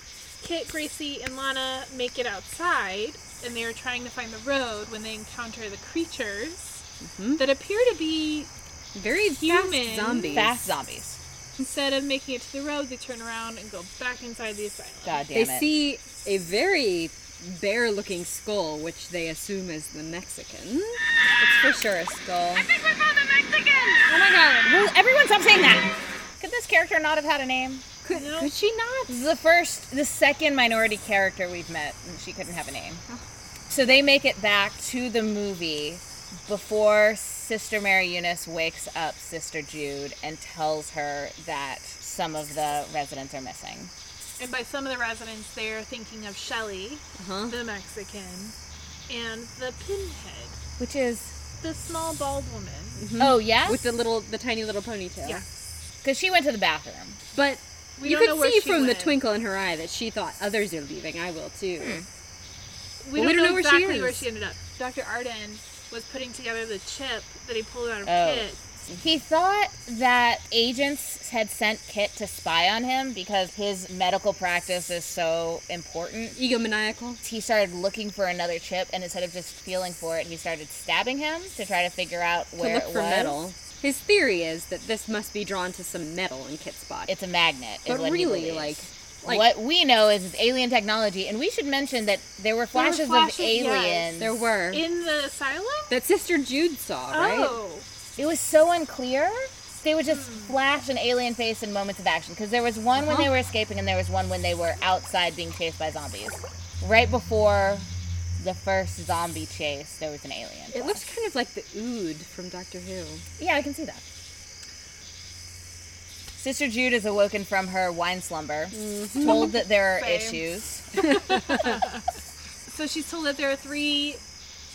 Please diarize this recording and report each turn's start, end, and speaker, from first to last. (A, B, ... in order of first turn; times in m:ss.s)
0:00.4-0:06.8 A
0:07.0-0:07.4 B
0:07.4-0:08.5 A
0:08.9-0:10.5 B
0:09.2-0:10.5 A
0:10.3-0:11.2 C
0:11.6-0:15.3 A
0:15.0-0:15.8 C
0:15.3-0:22.7 B
0:22.8-0:24.8 A
0:24.6-0:27.8 C
0:28.0-0:29.2 B
0:28.1-0:28.6 A
0:29.1-0:33.0 C
0:33.7-0:43.9 C
0:44.4-0:48.5 A
0:47.2-0:47.6 B
0:49.1-0:50.6 A
0:50.8-0:51.3 C
0:51.6-0:53.0 A
0:53.0-0:55.4 B
0:53.2-0:53.8 C
0:56.0-0:57.2 C
0:57.3-1:02.0 B
0:58.0-0:59.2 A
1:01.8-1:02.0 C
1:03.0-1:08.6 A
1:03.2-1:04.2 B
1:08.0-1:08.5 C
1:09.0-1:16.4 C
1:16.3-1:17.2 B
1:17.2-1:23.4 C
1:22.6-1:27.1 B
1:27.1-1:34.4 C
1:27.8-1:29.5 B
1:32.7-1:34.1 A
1:34.2-1:34.8 B
1:34.7-1:35.9 A
1:35.9-1:37.6 B
1:37.1-1:37.8 A
1:38.2-1:47.9 C
1:40.0-1:40.6 A
1:42.9-1:43.3 B
1:48.4-1:51.1 C
1:50.7-1:53.2 B
1:53.4-1:54.0 C
1:56.4-2:01.0 C
1:58.7-1:59.6 B
1:59.2-2:02.0 A
2:02.7-2:04.2 A